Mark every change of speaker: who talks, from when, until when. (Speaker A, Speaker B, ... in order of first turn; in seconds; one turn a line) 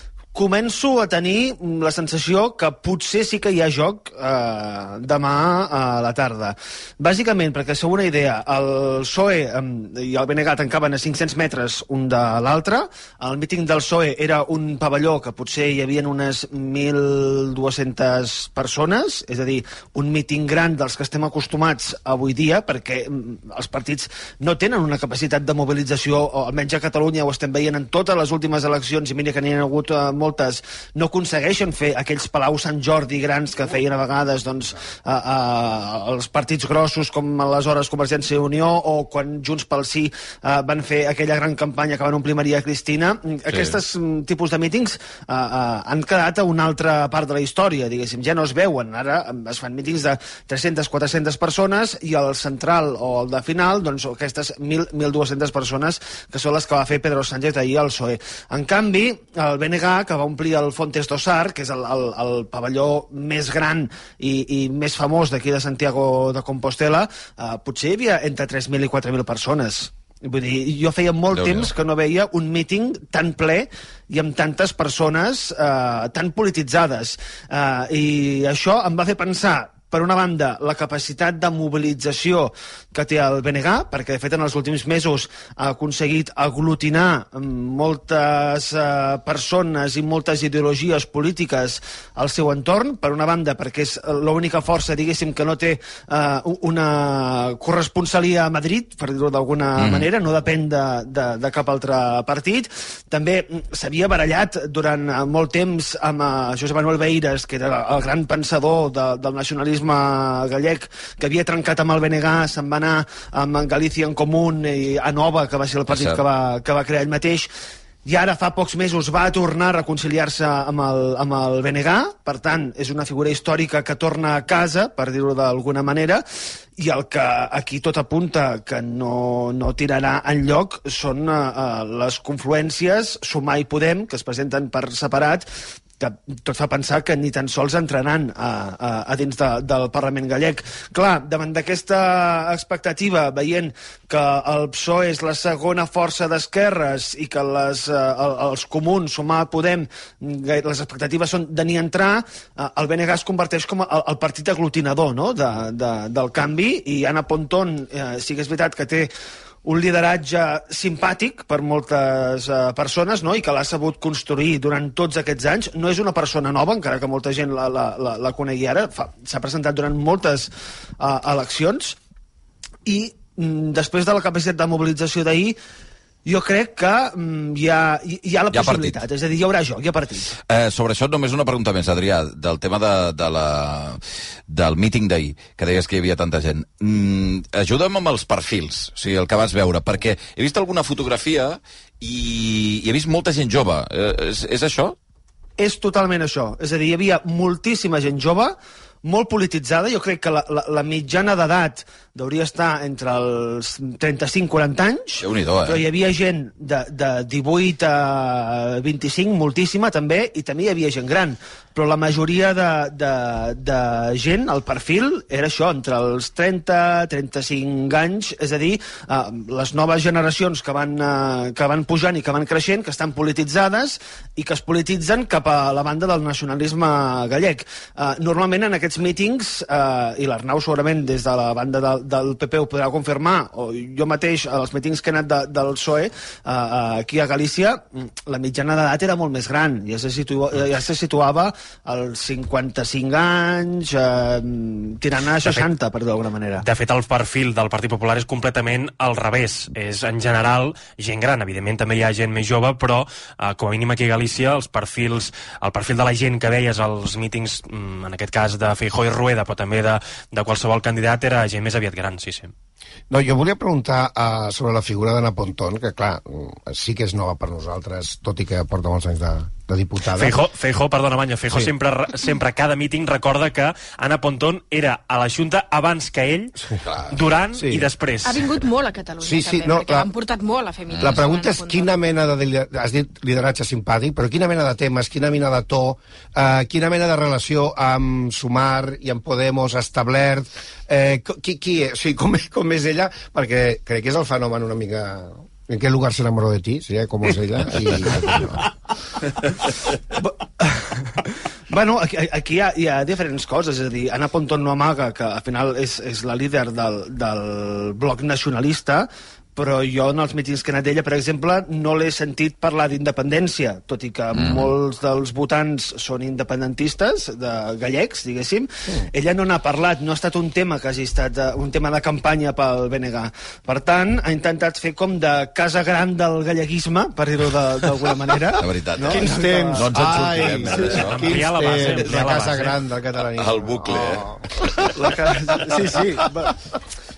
Speaker A: 0.3-117.5
Speaker B: 43.5-43.8
Speaker B: 71.3-71.7
Speaker B: 99.8-100.1
Speaker B: 115.9-116.2
Speaker A: 118.0-126.2
Speaker A: 126.8-135.5
Speaker A: 136.0-159.1
Speaker A: 159.7-172.0
Speaker A: 172.9-175.6
Speaker A: 176.3-180.4
Speaker B: 178.5-179.0
Speaker B: 180.5-195.0
Speaker A: 195.6-246.6
Speaker B: 205.2-205.8
Speaker C: 246.6-262.5
Speaker D: 263.1-270.4
Speaker C: 270.1-276.5
Speaker C: 277.1-278.3
Speaker D: 277.6-277.9
Speaker E: 278.3-281.9
Speaker D: 279.2-280.1
Speaker D: 281.0-298.6
Speaker A: 300.2-300.9
Speaker A: 301.7-329.9
Speaker B: 314.4-314.7
Speaker B: 328.6-332.3
Speaker D: 329.1-334.7
Speaker C: 331.1-332.8
Speaker B: 333.4-334.9
Speaker A: 334.9-336.5